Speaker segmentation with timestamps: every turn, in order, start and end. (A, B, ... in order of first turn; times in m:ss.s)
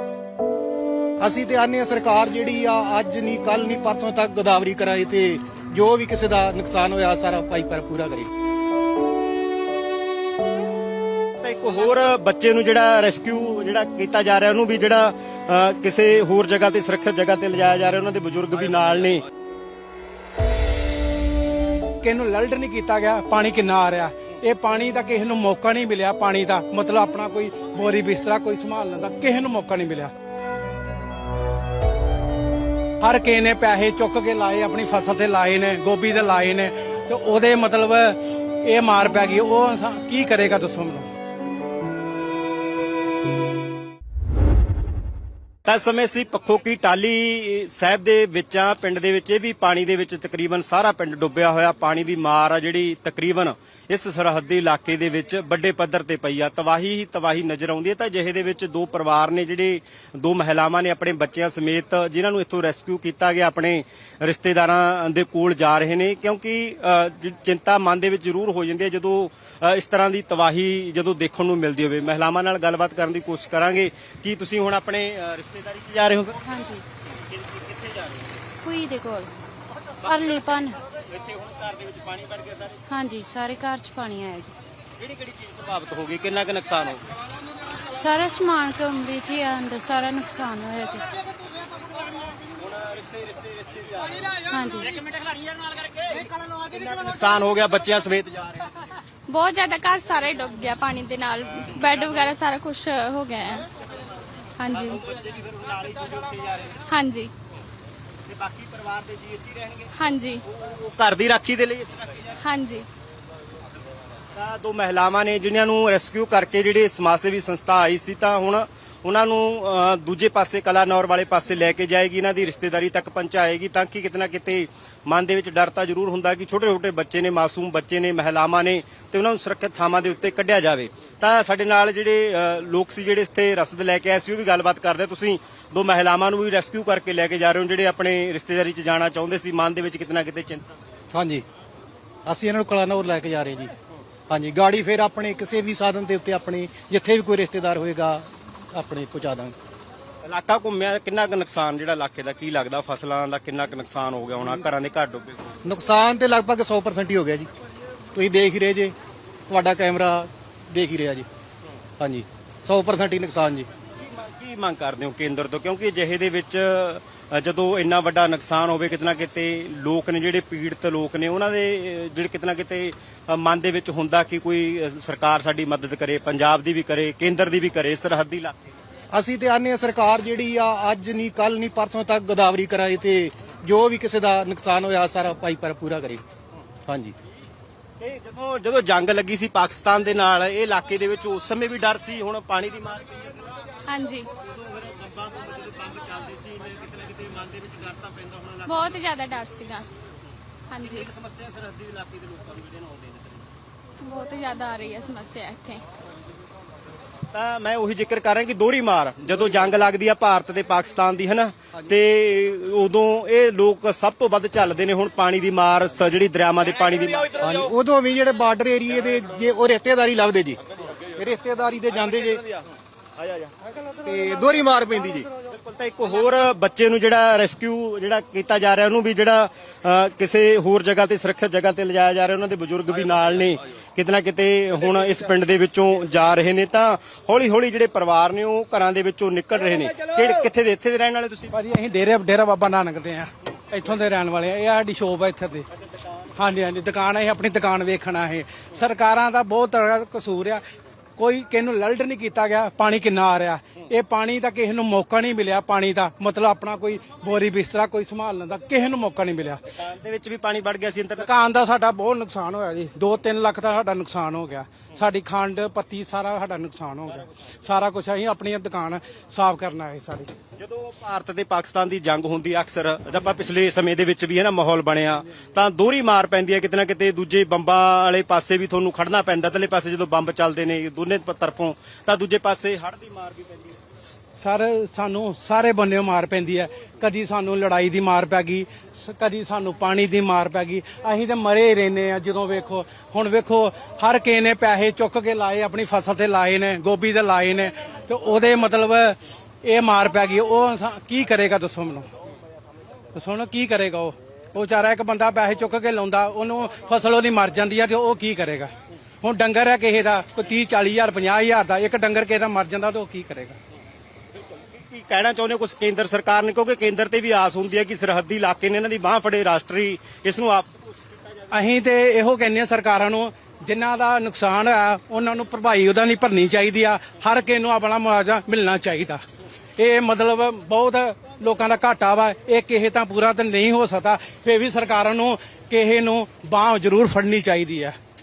0:01.2-0:08.3 A
0:11.4-0:19.2 B
0:22.0-0:30.1 C
0:33.0-0:41.1 C
0:45.6-1:16.4 B
1:16.4-1:16.8 D
1:17.2-1:18.4 B
1:18.6-1:19.3 D
1:20.0-1:20.8 D
1:20.0-1:22.8 B
1:22.9-1:24.5 D
1:25.0-1:27.0 B
1:27.9-1:31.1 D
1:32.4-1:34.4 B
1:34.5-1:34.9 D
1:35.1-1:38.8 B
1:39.3-1:43.7 E
1:44.6-1:45.0 E
1:44.7-1:46.8 B
1:46.8-1:47.3 E
1:48.3-1:49.9 B
1:49.9-1:50.4 E
1:50.4-1:52.4 B
1:52.4-1:52.9 E
1:54.3-2:20.7 B
2:21.1-2:21.4 A
2:22.3-2:23.7 A
2:24.3-2:29.6 A
2:30.2-2:35.4 B
2:35.6-2:37.5 A
2:38.1-2:38.9 A
2:39.5-2:41.3 A
2:42.0-2:43.7 A
2:44.0-2:58.5 B
2:59.1-3:06.2 A
3:06.9-3:07.2 A
3:08.0-3:13.6 B
3:13.9-3:14.3 E
3:14.4-3:18.9 B
3:18.7-3:19.9 E
3:20.7-3:21.1 E
3:20.8-3:23.4 B
3:24.0-3:25.8 E
3:27.3-3:37.3 B
3:37.4-3:40.6 A
3:41.2-3:42.4 A
3:44.0-3:45.3 A
3:45.5-4:01.5 B
4:01.5-4:05.7 C
4:06.4-4:10.6 C
4:11.2-4:19.6 C
4:19.8-4:21.3 B
4:21.2-4:30.3 C
4:30.6-4:43.8 B
4:44.4-5:02.1 C
5:03.1-5:08.7 C
5:09.2-5:13.6 C
5:14.6-5:21.5 B
5:21.5-5:29.2 C
5:29.8-5:38.0 C